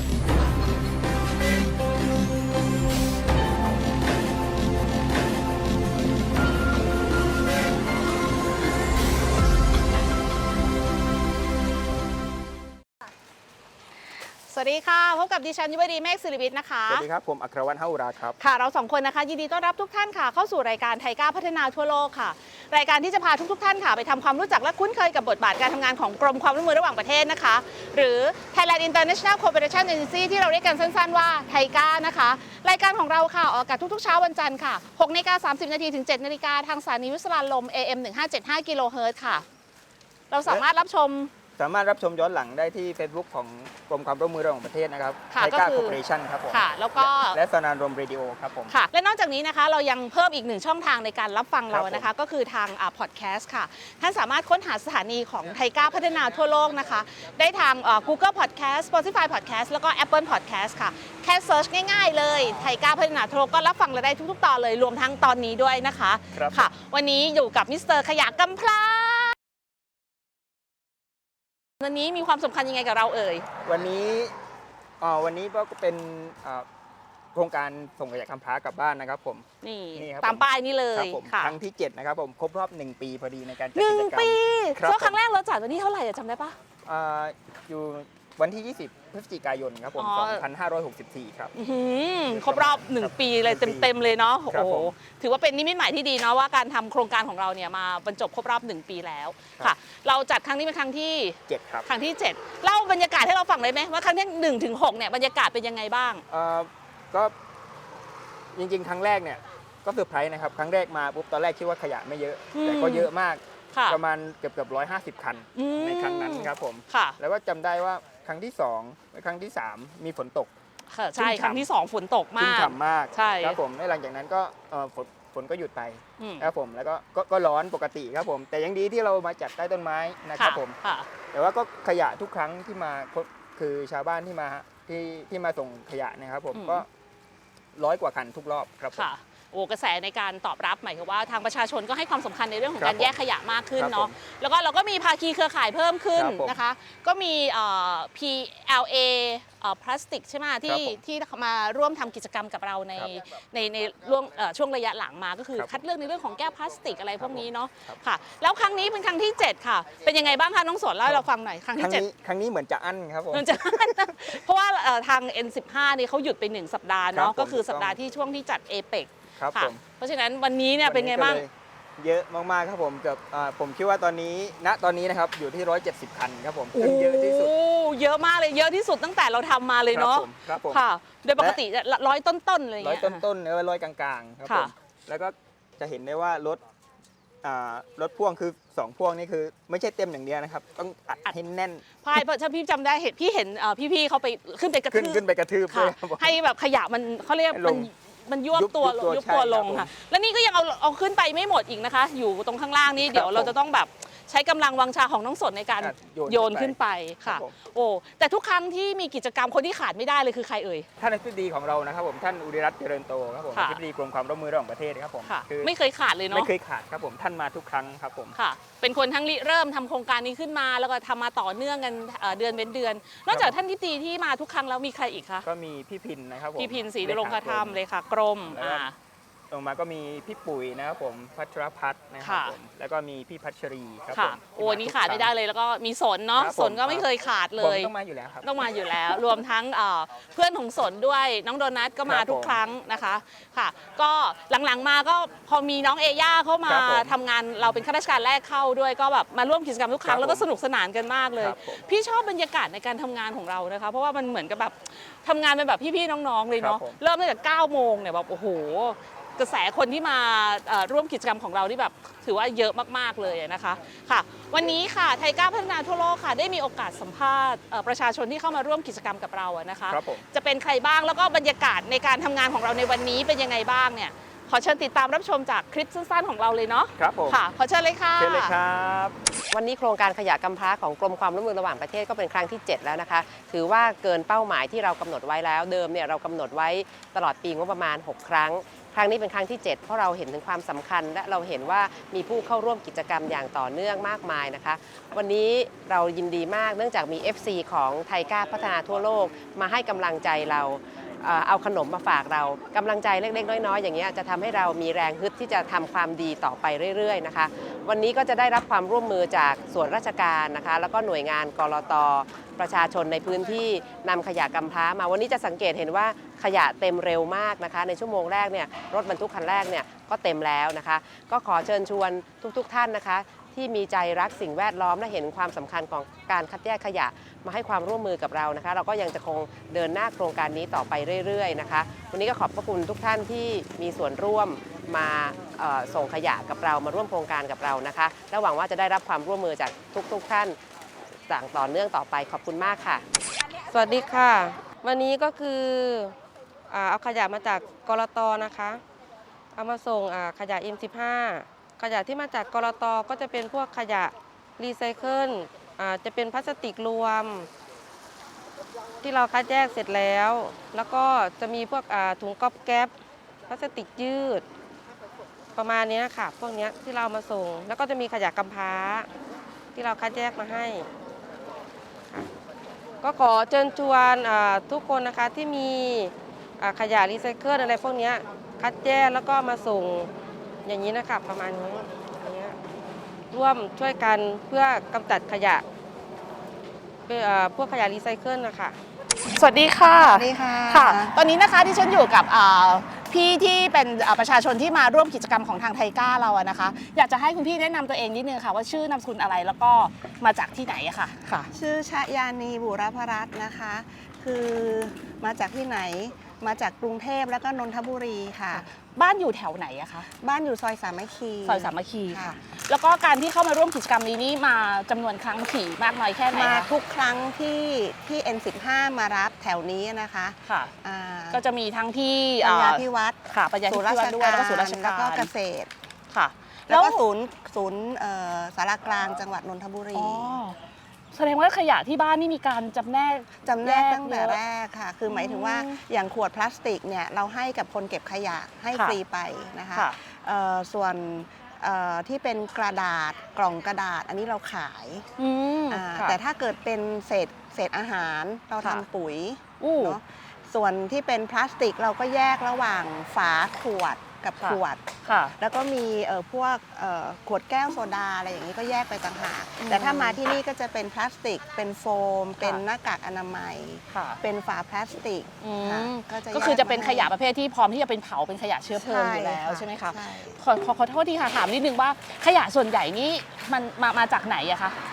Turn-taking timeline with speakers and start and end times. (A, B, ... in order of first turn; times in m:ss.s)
0:14.4-0:17.0 A
0:16.9-0:18.4 B
0:18.4-0:39.4 A
0:40.3-0:41.3 A
0:41.6-0:48.7 B
0:45.3-0:46.0 A
0:46.5-0:47.4 A
0:48.7-1:09.3 A
0:51.7-0:52.1 B
1:06.3-1:06.6 B
1:11.8-1:13.5 A
1:13.6-1:14.3 B
1:15.0-1:16.6 B
1:17.3-1:25.2 B
1:19.6-1:21.6 A
1:23.7-1:26.6 A
1:26.8-1:31.5 B
1:30.0-1:30.4 A
1:31.5-1:46.2 A
1:32.3-1:33.9 B
1:34.5-1:34.9 B
1:41.5-1:41.9 B
1:46.3-1:47.3 B
1:48.5-2:00.5 B
1:52.5-1:53.1 A
1:53.7-1:54.0 A
1:55.6-1:57.2 A
2:00.9-2:03.6 A
2:01.2-2:01.6 B
2:02.4-2:10.8 B
2:06.2-2:06.5 A
2:10.4-2:11.1 A
2:11.3-2:16.9 B
2:16.5-2:16.8 A
2:17.8-2:19.1 B
2:19.0-2:42.0 A
2:22.8-2:23.1 B
2:23.8-2:24.1 B
2:26.1-2:26.6 B
2:30.6-2:31.0 B
2:37.2-2:38.0 B
2:41.8-2:44.4 B
2:43.3-2:51.4 A
2:47.1-2:48.0 B
2:49.4-2:49.8 B
2:50.8-2:57.5 B
2:56.7-3:03.2 A
2:59.9-3:00.8 B
3:02.8-3:06.6 B
3:04.4-3:04.7 A
3:07.4-3:11.8 B
3:12.0-3:30.9 A
3:14.9-3:16.4 B
3:17.5-3:17.9 B
3:18.5-3:19.9 B
3:23.0-3:23.5 B
3:25.8-3:27.5 B
3:31.0-3:35.7 B
3:35.2-3:36.5 A
3:36.3-3:38.4 B
3:38.4-3:45.4 A
3:43.3-3:43.6 B
3:45.4-3:47.8 B
3:46.6-3:48.9 A
3:48.5-3:48.8 B
3:49.5-3:55.3 B
3:52.2-3:52.5 A
3:54.1-3:57.9 A
3:56.4-3:59.2 B
3:58.4-4:38.5 A
4:02.0-4:02.6 B
4:06.6-4:07.8 B
4:10.0-4:10.5 B
4:11.4-4:11.8 B
4:16.6-4:17.0 B
4:29.9-4:30.2 B
4:37.0-4:37.4 B
4:38.2-4:39.1 B
4:39.5-5:40.6 C
5:41.3-5:43.0 C
5:43.7-5:46.1 D
5:46.7-5:48.8 D
5:49.5-5:57.5 D
5:59.0-6:02.9 D
6:03.5-6:04.4 D
6:05.5-6:09.1 D
6:09.7-6:10.9 D
6:13.0-6:20.1 D
6:20.6-6:22.6 D
6:23.3-6:25.6 D
6:27.0-6:28.8 D
6:29.3-6:41.5 A
6:30.0-6:31.1 E
6:41.5-6:48.6 E
6:48.5-6:50.1 A
6:50.2-6:52.4 E
6:51.4-6:56.7 A
6:56.3-7:01.4 E
7:00.4-7:00.7 A
7:01.3-7:05.3 A
7:02.4-7:05.7 E
7:06.1-7:07.0 A
7:06.7-7:10.4 E
7:09.9-7:10.6 A
7:11.1-7:14.4 A
7:13.4-7:25.1 E
7:15.1-7:15.8 A
7:18.7-7:19.0 A
7:25.2-7:26.2 A
7:25.7-7:34.8 E
7:29.6-7:30.0 A
7:34.4-7:35.4 A
7:35.4-7:47.1 E
7:39.6-7:40.2 A
7:43.9-7:44.2 A
7:45.4-7:54.8 A
7:48.8-7:50.4 E